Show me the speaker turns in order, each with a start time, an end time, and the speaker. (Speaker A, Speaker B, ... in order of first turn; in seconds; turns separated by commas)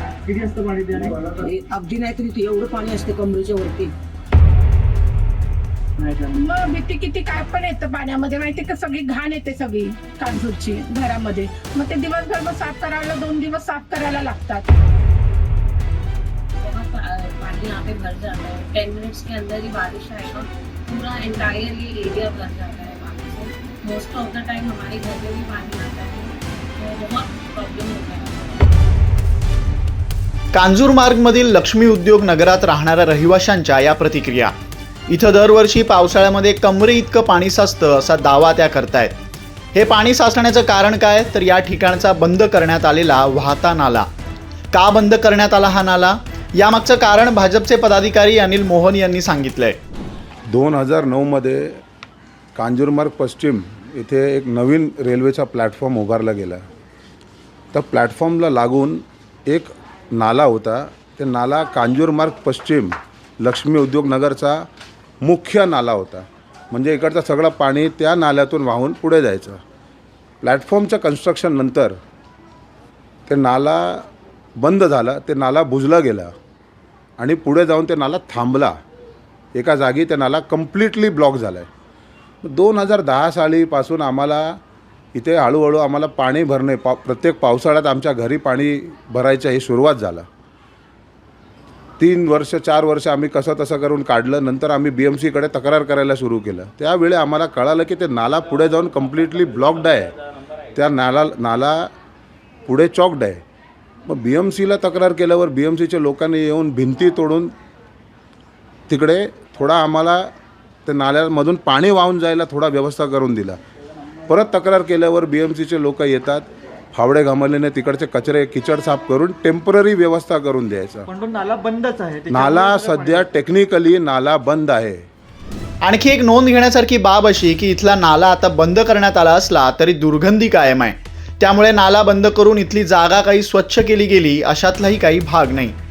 Speaker A: 0.2-1.2, Speaker B: 1.0-3.9, Speaker A: 6.0-6.3, Speaker C: 6.3-14.7, Speaker D: 16.6-28.6, Speaker E: 30.5-34.5, Speaker E: 35.1-39.1, Speaker E: 39.8-44.1, Speaker E: 44.7-49.8, Speaker F: 50.5-51.8, Speaker F: 52.5-56.6, Speaker F: 57.7-64.7, Speaker F: 65.2-69.6, Speaker F: 70.4-72.0, Speaker F: 73.3-74.1, Speaker F: 74.6-76.3, Speaker F: 77.2-78.8, Speaker F: 79.5-81.7, Speaker F: 82.4-84.6, Speaker F: 85.1-90.2, Speaker F: 92.0-100.1, Speaker F: 100.8-101.9, Speaker F: 102.7-103.4, Speaker F: 104.1-107.5, Speaker F: 108.9-110.3, Speaker F: 110.9-113.6, Speaker F: 114.3-121.1, Speaker A: 121.1-123.3, Speaker F: 122.3-125.0, Speaker E: 125.8-135.8